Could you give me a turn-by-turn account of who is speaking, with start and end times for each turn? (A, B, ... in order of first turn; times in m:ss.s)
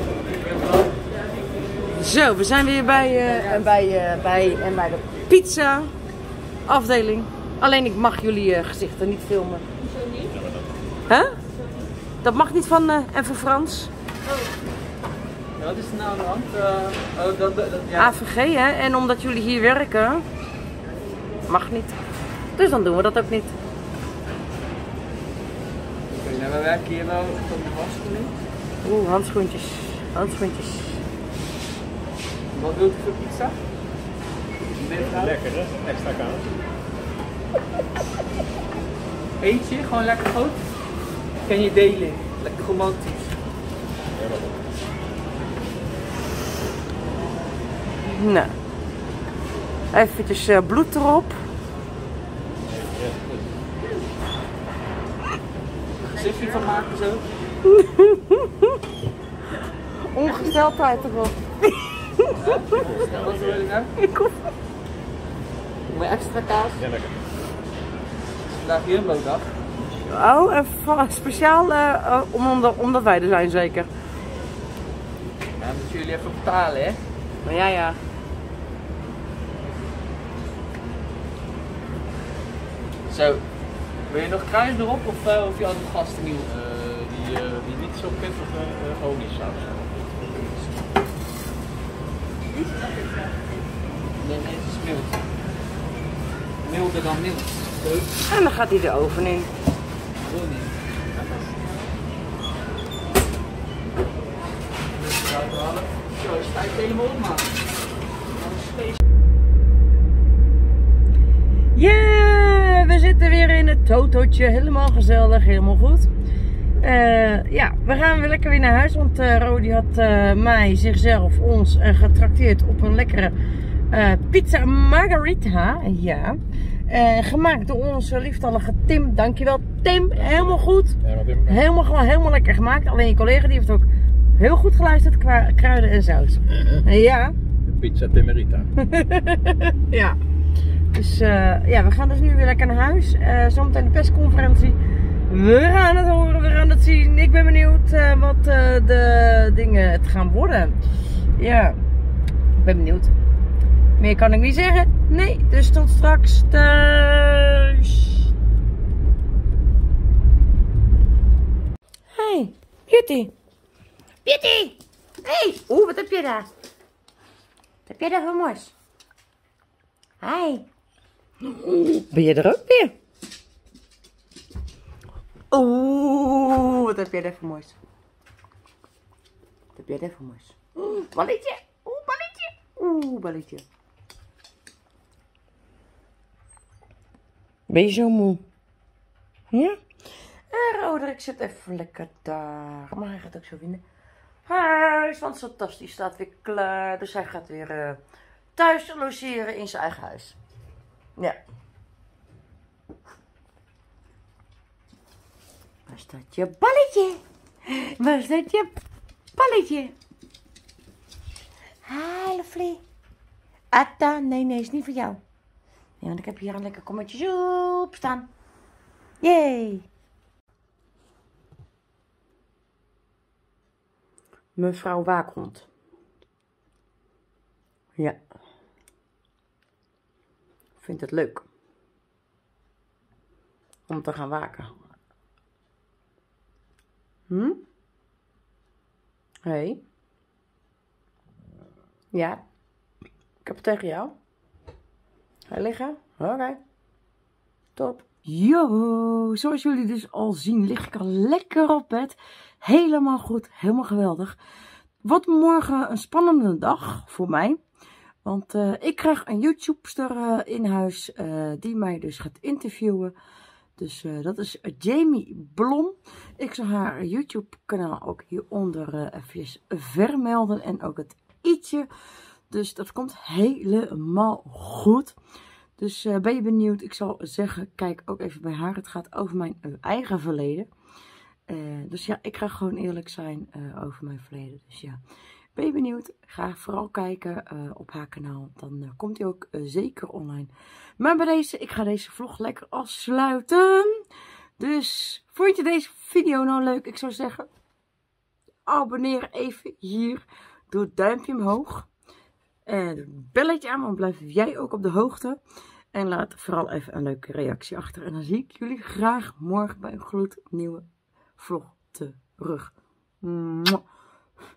0:00.4-0:00.8 A
0:01.9-0:05.9 B
0:06.6-0:09.6 B
0:11.1-0:11.4 B
0:12.2-0:13.9 B
0:15.6-0:18.1 A
0:18.0-0:20.2 B
0:21.5-0:22.0 B
0:22.5-0:23.5 B
0:26.1-0:28.3 A
0:28.8-0:31.0 B
0:32.5-0:33.6 A
0:34.7-0:35.4 A
0:35.3-0:36.4 C
0:39.4-0:40.6 A
0:41.4-0:43.3 A
0:48.0-0:48.5 B
0:49.9-0:51.4 B
0:56.0-0:57.2 A
0:57.6-0:58.8 B
1:00.0-1:02.9 B
1:02.3-1:03.9 A
1:04.0-1:04.5 B
1:05.9-1:06.9 A
1:08.5-1:09.5 A
1:10.0-1:13.9 B
1:15.6-1:17.0 A
1:17.4-1:18.0 B
1:23.1-1:23.4 A
1:24.1-1:26.5 A
1:26.5-1:29.8 C
1:34.2-1:35.2 A
1:36.6-1:38.0 A
1:38.3-1:39.5 B
1:40.2-1:41.6 A
1:44.9-1:47.5 A
1:48.4-1:48.9 A
1:51.7-1:56.1 B
1:56.8-2:03.4 B
2:03.9-2:17.3 B
2:11.1-2:11.4 C
2:17.6-2:18.7 C
2:18.8-2:20.2 B
2:20.9-2:30.8 B
2:31.3-2:31.8 B
2:32.5-2:33.1 B
2:34.0-2:38.2 B
2:42.1-2:43.3 B
2:44.2-2:46.5 B
2:47.8-2:48.7 B
2:50.2-2:50.7 B
2:51.4-2:53.0 B
2:55.5-2:57.8 B
2:59.7-3:03.6 B
3:07.7-3:08.4 B
3:09.5-3:09.8 B
3:10.5-3:13.8 B
3:14.4-3:18.0 B
3:18.5-3:20.4 B
3:25.9-3:28.8 B
3:29.3-3:29.9 B
3:31.8-3:32.8 B
3:33.7-3:35.2 B
3:36.0-3:38.3 B
3:39.2-3:39.9 B
3:44.6-3:45.7 B
3:50.8-3:51.5 B
3:53.9-3:54.7 B
3:57.3-3:57.6 B
3:59.4-3:59.8 B
4:02.1-4:02.4 B
4:03.4-4:04.2 B
4:05.5-4:06.6 B
4:07.7-4:14.4 B
4:15.0-4:17.6 B
4:18.2-4:23.1 B
4:23.8-4:31.9 B
4:32.5-4:35.2 B
4:35.8-4:40.7 B
4:41.5-4:45.0 B
4:45.5-4:54.0 B
4:54.6-4:57.5 B
4:58.6-5:01.9 B
5:02.6-5:05.4 B
5:05.9-5:10.8 B
5:11.4-5:13.8 B